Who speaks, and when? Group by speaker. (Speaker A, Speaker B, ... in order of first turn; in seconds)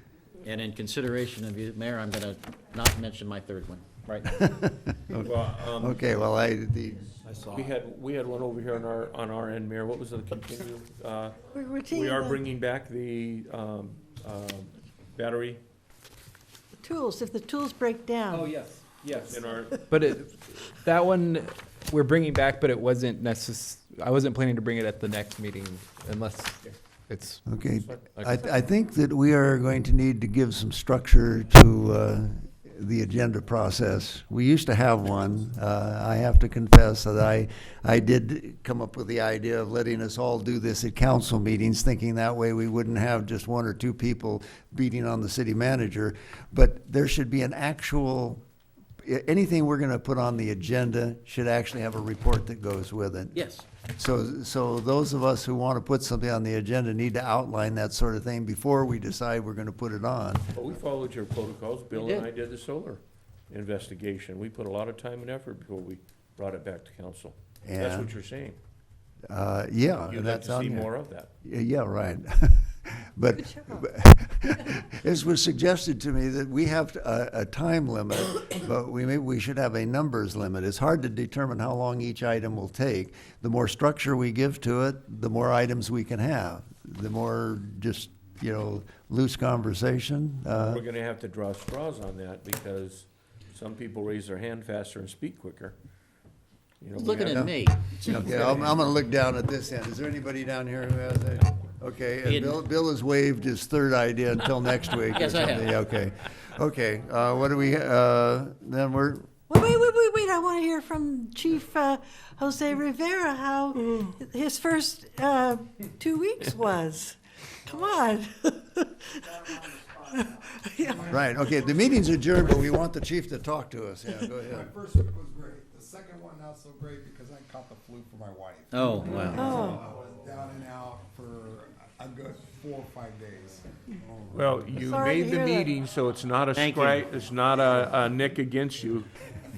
Speaker A: 0.4-4.3, 7.2-7.7, 53.3-53.7, 61.9-62.3, 97.0-98.8, 102.2-102.6, 105.1-105.8, 128.7-129.5, 136.6-137.1
Speaker B: 4.3-7.2, 27.4-48.4, 49.0-60.4, 67.6-68.1, 69.3-70.9, 71.4-90.8, 97.2-109.3, 121.1-124.7
Speaker C: 5.1-6.0, 7.5-11.4, 11.9-15.6, 19.1-19.9, 27.8-28.3, 60.5-68.6, 70.1-71.3, 90.5-95.7, 96.8-97.5, 134.3-139.1
Speaker D: 11.5-12.4, 16.8-18.7, 73.4-73.9, 109.5-119.4, 120.1-121.4, 129.3-129.8, 134.8-135.7
Speaker E: 19.9-27.4
Speaker F: 119.2-122.4, 124.5-133.7